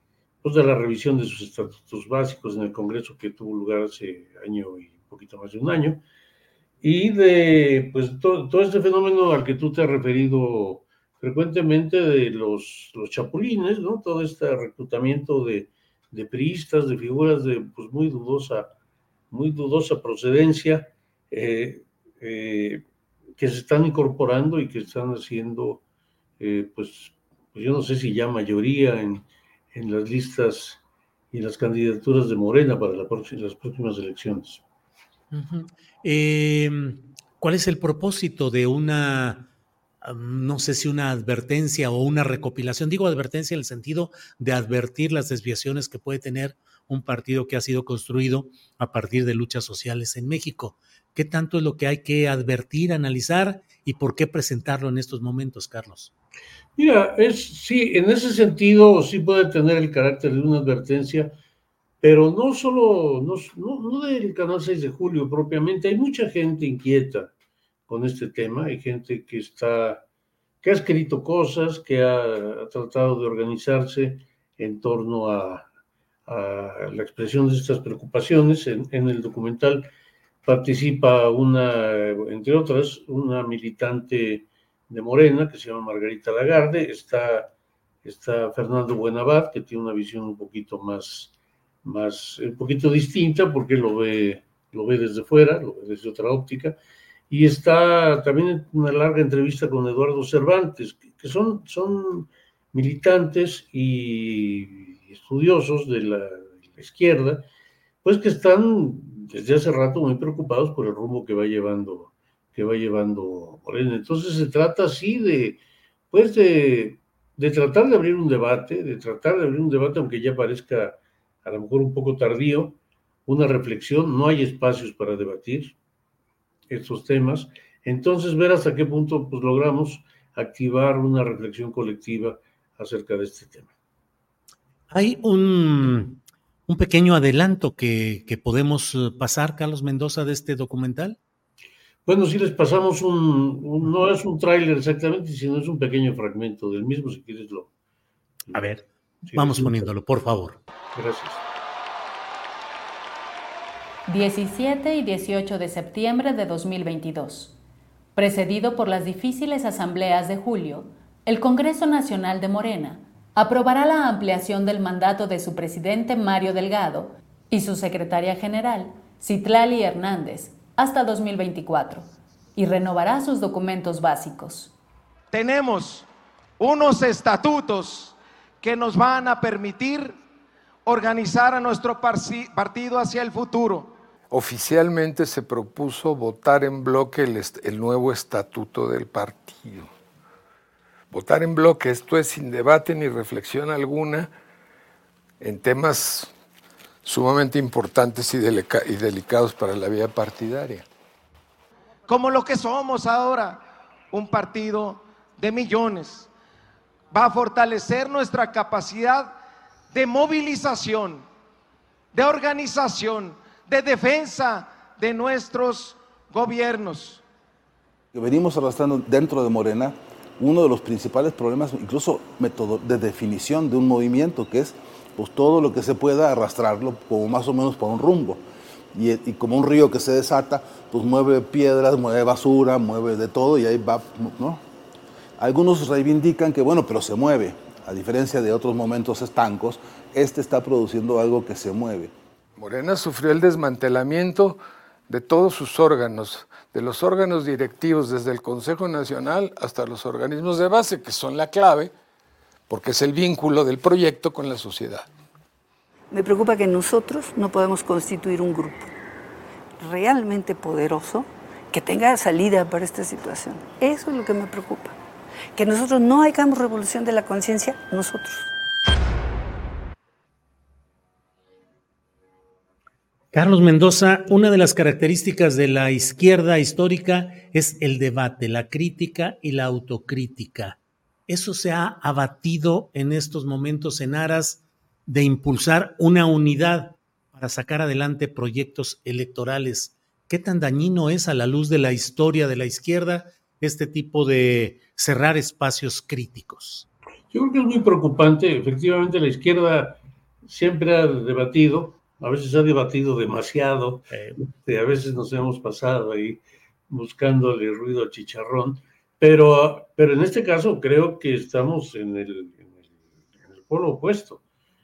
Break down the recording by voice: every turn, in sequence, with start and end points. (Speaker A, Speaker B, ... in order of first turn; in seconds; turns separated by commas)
Speaker A: 0.4-6.0, Speaker A: 6.8-18.7, Speaker A: 19.3-22.9, Speaker A: 23.4-25.8, Speaker A: 26.4-30.8, Speaker A: 31.3-34.6, Speaker B: 35.3-39.5, Speaker B: 40.0-56.1, Speaker A: 56.8-61.4, Speaker A: 62.0-67.3, Speaker A: 67.9-70.0, Speaker A: 70.6-75.7, Speaker A: 76.3-79.9, Speaker A: 80.5-87.5, Speaker A: 88.0-91.3, Speaker A: 91.8-96.8, Speaker A: 97.3-107.5, Speaker A: 108.0-115.6, Speaker A: 116.1-125.8, Speaker A: 126.7-133.7, Speaker B: 134.9-141.2, Speaker A: 142.1-147.7, Speaker A: 148.5-149.9, Speaker B: 148.5-150.6, Speaker A: 150.9-151.4, Speaker C: 154.1-157.6, Speaker C: 158.2-174.7, Speaker D: 175.3-176.1, Speaker D: 176.6-180.2, Speaker D: 180.9-183.9, Speaker E: 184.3-189.9, Speaker E: 191.1-194.3, Speaker E: 195.4-196.3, Speaker E: 197.0-200.9, Speaker D: 202.1-206.3, Speaker D: 207.1-209.4, Speaker D: 209.9-211.3, Speaker D: 212.1-217.2, Speaker F: 218.1-228.4, Speaker F: 228.9-234.6, Speaker F: 235.4-242.1, Speaker E: 242.6-251.9, Speaker E: 252.7-255.1, Speaker G: 256.1-258.9, Speaker G: 259.8-265.0, Speaker G: 265.6-268.5, Speaker B: 273.3-296.9, Speaker A: 297.3-312.9, Speaker A: 313.4-314.4